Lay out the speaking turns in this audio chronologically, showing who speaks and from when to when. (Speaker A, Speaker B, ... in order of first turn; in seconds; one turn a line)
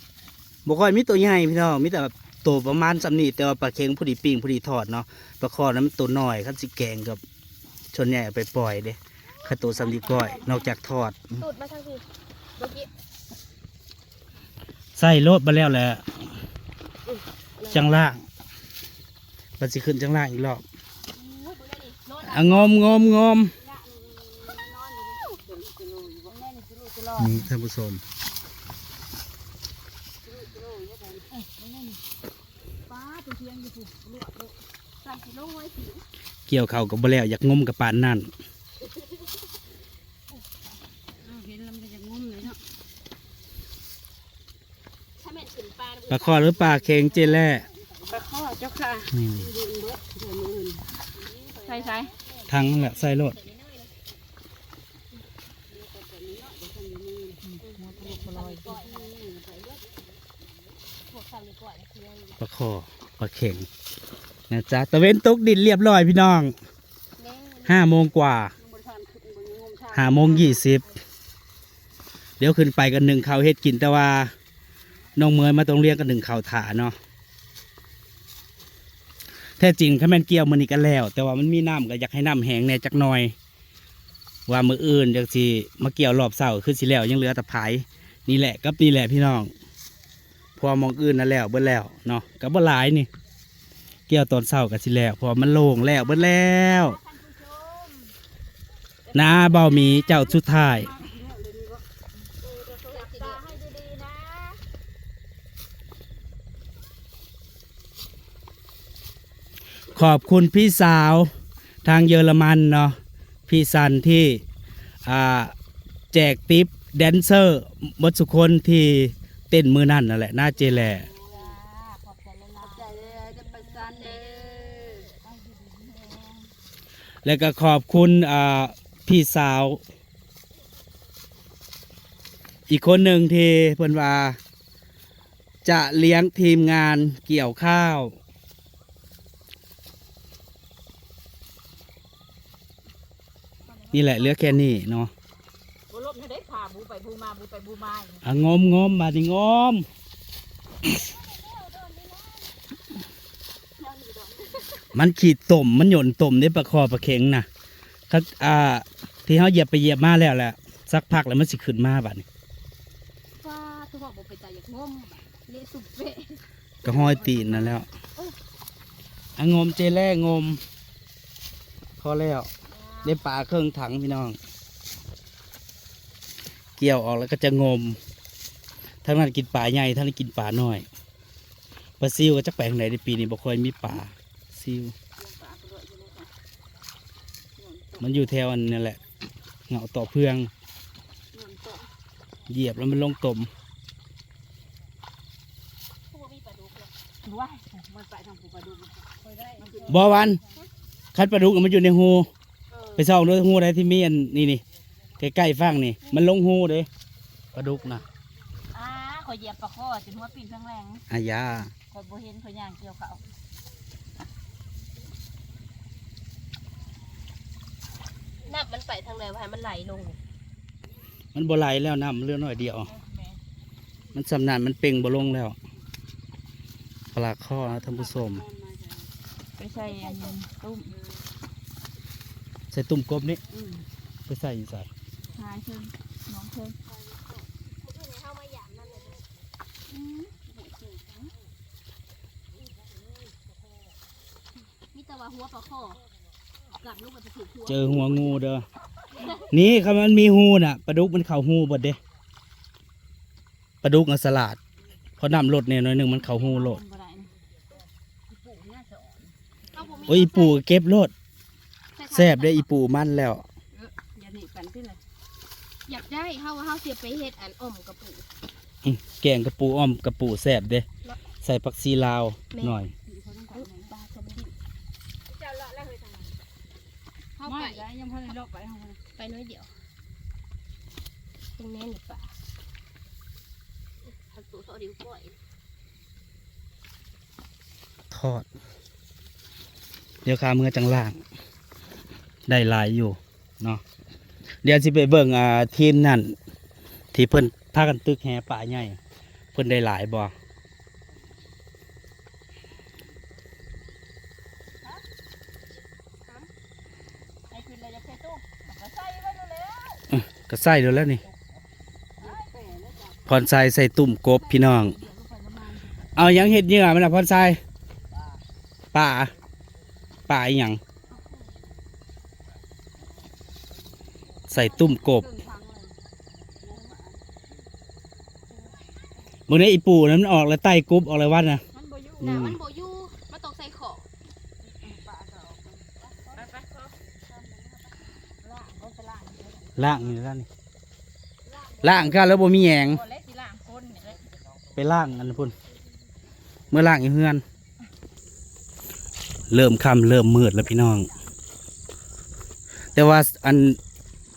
Speaker A: 0.7-7.2
Speaker A: 7.9-11.4
Speaker B: 9.6-10.7
Speaker C: 9.9-10.3
Speaker C: 11.4-12.0
Speaker C: 12.6-12.9
Speaker A: 15.0-16.1
Speaker C: 17.1-17.9
Speaker A: 17.7-18.2
Speaker A: 19.6-20.6
Speaker C: 21.1-23.1
Speaker A: 22.2-23.6
Speaker B: 23.6-27.5
Speaker A: 27.2-28.0
Speaker B: 31.3-32.0
Speaker B: 32.9-34.5
Speaker C: 35.0-36.0
Speaker A: 36.5-38.3
Speaker C: 38.9-39.3
Speaker B: 41.2-42.6
Speaker C: 45.2-48.2
Speaker A: 46.1-47.7
Speaker B: 48.1-49.2
Speaker A: 49.1-49.5
Speaker C: 51.1-54.0
Speaker B: 51.6-52.1
Speaker A: 52.5-53.4
Speaker C: 57.2-59.8
Speaker B: 57.4-59.1
Speaker C: 61.1-62.4
Speaker A: 62.4-63.7
Speaker A: 64.5-66.5
Speaker C: 67.2-67.9
Speaker A: 67.7-68.5
Speaker B: 68.6-70.5
Speaker A: 69.9-70.9
Speaker C: 70.2-70.9
Speaker A: 72.4-74.3
Speaker A: 75.2-77.0
Speaker A: 79.6-83.3
Speaker A: 84.5-89.5
Speaker A: 90.6-93.1
Speaker A: 94.1-97.0
Speaker B: 95.9-98.1
Speaker B: 99.1-101.8
Speaker A: 99.1-100.9
Speaker B: 102.4-104.6
Speaker C: 102.8-103.6
Speaker A: 109.9-111.3
Speaker A: 111.8-114.4
Speaker A: 115.0-115.5
Speaker A: 116.1-121.1
Speaker C: 120.6-121.5
Speaker B: 121.2-126.5
Speaker C: 122.6-125.1
Speaker A: 127.2-129.8
Speaker A: 132.7-134.4
Speaker A: 135.7-138.2
Speaker B: 143.7-144.6
Speaker A: 143.9-145.1
Speaker B: 145.9-148.2
Speaker A: 148.2-149.9
Speaker B: 151.3-152.2
Speaker C: 154.2-154.7
Speaker A: 154.9-157.5
Speaker A: 158.1-162.2
Speaker C: 163.4-167.0
Speaker A: 166.8-167.9
Speaker B: 167.1-167.7
Speaker A: 169.4-170.6
Speaker A: 172.0-172.5
Speaker C: 172.7-173.2
Speaker A: 173.0-174.4
Speaker A: 176.8-178.0
Speaker A: 179.0-180.9
Speaker A: 182.0-184.9
Speaker B: 185.2-186.3
Speaker B: 187.6-188.3
Speaker A: 188.0-189.0
Speaker A: 189.7-190.5
Speaker B: 191.3-191.9
Speaker A: 192.5-193.5
Speaker C: 196.1-196.9
Speaker B: 197.2-200.3
Speaker C: 199.3-200.6
Speaker A: 199.9-200.4
Speaker A: 201.2-202.3
Speaker C: 202.7-203.1
Speaker A: 203.0-204.6
Speaker A: 205.2-206.9
Speaker C: 206.0-206.3
Speaker A: 207.5-208.0
Speaker B: 208.7-211.0
Speaker A: 211.1-211.7
Speaker B: 211.9-213.2
Speaker C: 218.4-220.2
Speaker A: 221.3-222.9
Speaker B: 222.8-223.4
Speaker A: 224.1-225.6
Speaker A: 227.1-228.4
Speaker B: 227.8-228.3
Speaker B: 229.6-230.9
Speaker C: 229.8-230.3
Speaker C: 230.9-231.2
Speaker A: 232.7-233.4
Speaker B: 233.5-233.8
Speaker A: 234.3-234.9
Speaker B: 235.3-236.8
Speaker C: 236.9-239.3
Speaker B: 240.1-241.0
Speaker C: 244.9-246.0
Speaker C: 246.8-248.2
Speaker A: 247.7-248.7
Speaker C: 249.2-249.4
Speaker A: 249.5-252.0
Speaker A: 253.8-254.6
Speaker A: 255.2-256.8
Speaker B: 256.1-257.3
Speaker B: 258.3-259.3
Speaker C: 259.7-260.6
Speaker A: 260.1-261.1
Speaker C: 262.0-262.7
Speaker A: 262.1-263.4
Speaker B: 263.7-265.0
Speaker C: 265.9-268.3
Speaker A: 268.8-270.9
Speaker A: 271.4-272.9
Speaker C: 272.5-272.8
Speaker B: 273.1-273.9
Speaker C: 273.5-274.5
Speaker B: 275.3-276.3
Speaker C: 277.4-277.9
Speaker B: 277.4-279.0
Speaker C: 279.1-279.7
Speaker C: 281.6-282.3
Speaker C: 284.1-285.4
Speaker A: 288.1-288.5
Speaker A: 290.2-291.2
Speaker A: 292.5-293.8
Speaker A: 294.6-296.4
Speaker A: 297.1-299.0
Speaker A: 299.5-300.3
Speaker B: 307.5-310.1
Speaker A: 310.1-311.2
Speaker B: 312.2-312.8
Speaker A: 313.3-315.0
Speaker B: 314.4-316.1
Speaker A: 316.2-317.6
Speaker A: 318.9-319.3
Speaker A: 320.3-320.8
Speaker A: 324.5-325.3
Speaker B: 324.5-326.0
Speaker B: 326.6-327.1
Speaker A: 329.5-331.6
Speaker B: 331.7-332.4
Speaker C: 332.2-334.1
Speaker A: 332.2-332.6
Speaker B: 334.8-335.8
Speaker C: 336.4-336.9
Speaker B: 338.4-340.1
Speaker A: 339.8-340.5
Speaker A: 341.8-343.0
Speaker B: 342.1-344.2
Speaker A: 344.8-345.6
Speaker A: 346.7-347.4
Speaker A: 349.5-351.1
Speaker A: 352.9-353.8